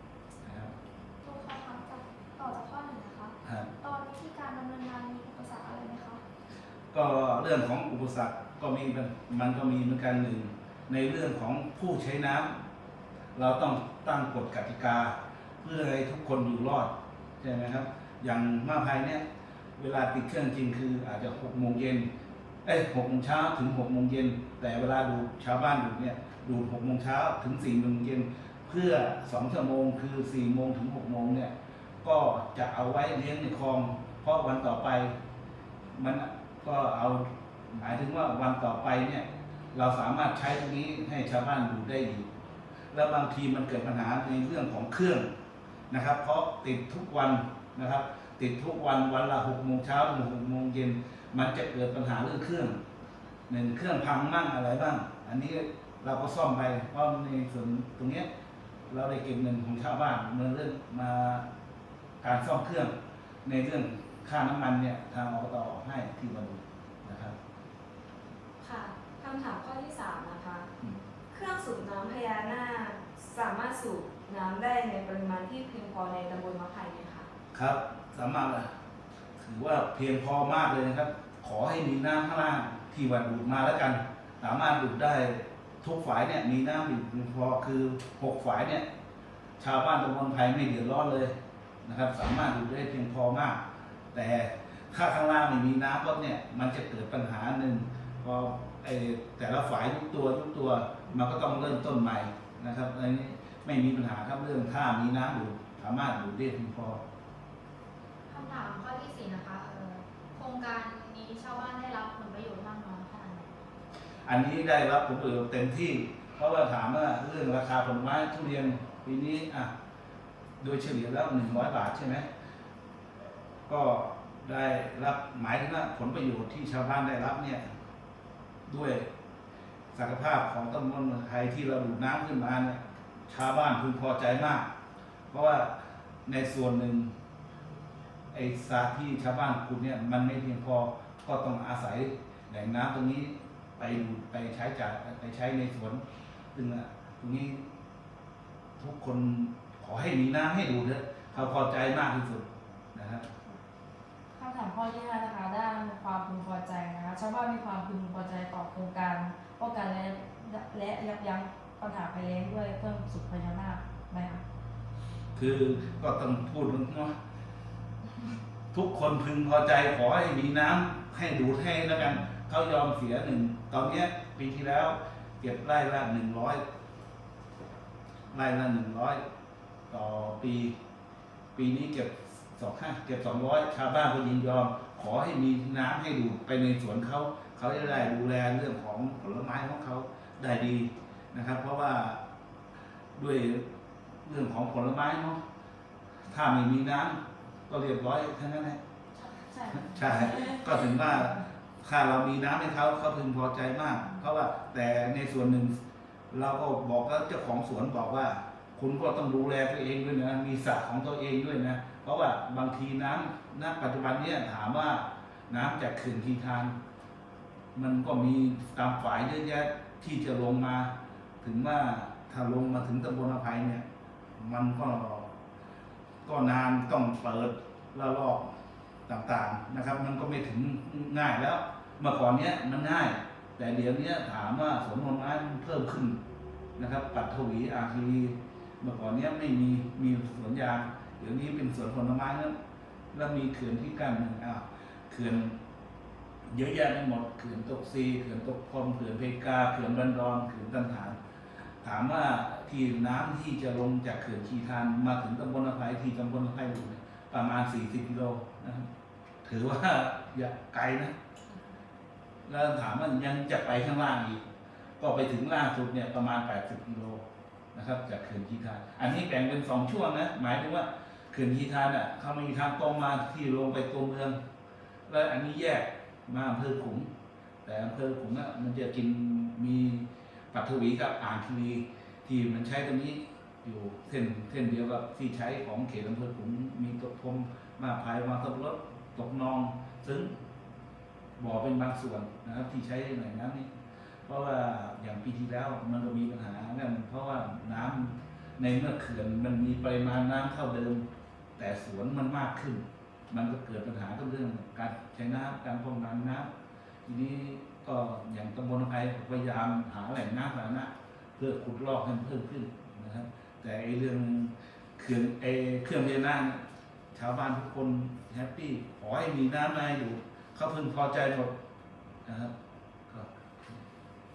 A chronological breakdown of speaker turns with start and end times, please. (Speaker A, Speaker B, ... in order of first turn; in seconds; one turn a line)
Speaker A: 0.4-0.7
Speaker B: 1.2-6.2
Speaker A: 3.4-3.7
Speaker A: 6.9-12.5
Speaker A: 13.4-19.2
Speaker A: 19.8-22.1
Speaker A: 22.6-31.5
Speaker A: 32.0-35.1
Speaker A: 35.9-42.3
Speaker A: 42.9-45.2
Speaker A: 45.9-52.8
Speaker A: 53.5-58.3
Speaker A: 58.9-61.5
Speaker A: 62.2-62.9
Speaker A: 63.5-67.3
Speaker C: 68.6-70.6
Speaker D: 68.6-70.6
Speaker D: 71.3-77.2
Speaker C: 71.3-77.0
Speaker A: 77.5-78.7
Speaker A: 79.4-88.9
Speaker A: 89.6-91.3
Speaker A: 91.8-93.6
Speaker A: 94.1-107.0
Speaker E: 108.3-113.5
Speaker A: 114.2-119.7
Speaker A: 120.6-122.3
Speaker A: 123.7-127.6
Speaker A: 128.7-129.1
Speaker A: 129.9-134.7
Speaker A: 135.3-135.7
Speaker A: 136.3-137.1
Speaker A: 138.3-146.0
Speaker A: 146.6-147.6
Speaker A: 148.8-153.2
Speaker C: 154.3-164.4
Speaker A: 165.4-167.1
Speaker A: 168.7-176.6
Speaker A: 178.3-179.2
Speaker A: 179.9-180.7
Speaker A: 181.6-192.2
Speaker A: 193.2-193.7
Speaker A: 194.3-195.4
Speaker A: 196.3-197.2
Speaker A: 197.7-198.8
Speaker C: 199.3-200.5
Speaker A: 199.8-205.8
Speaker A: 206.3-216.8
Speaker A: 217.8-223.8
Speaker A: 224.4-225.3
Speaker A: 226.2-228.5
Speaker A: 229.1-236.2
Speaker A: 236.8-242.5
Speaker A: 243.1-245.6
Speaker A: 246.5-251.2
Speaker A: 251.8-258.9
Speaker A: 259.4-261.1
Speaker A: 262.5-264.4
Speaker A: 265.0-267.2
Speaker A: 267.7-274.4
Speaker A: 275.1-277.1
Speaker A: 277.6-290.3
Speaker A: 291.4-293.7
Speaker A: 294.3-301.0
Speaker A: 301.6-306.5
Speaker A: 307.1-316.6
Speaker A: 317.1-321.5
Speaker A: 322.3-322.5
Speaker A: 323.1-323.8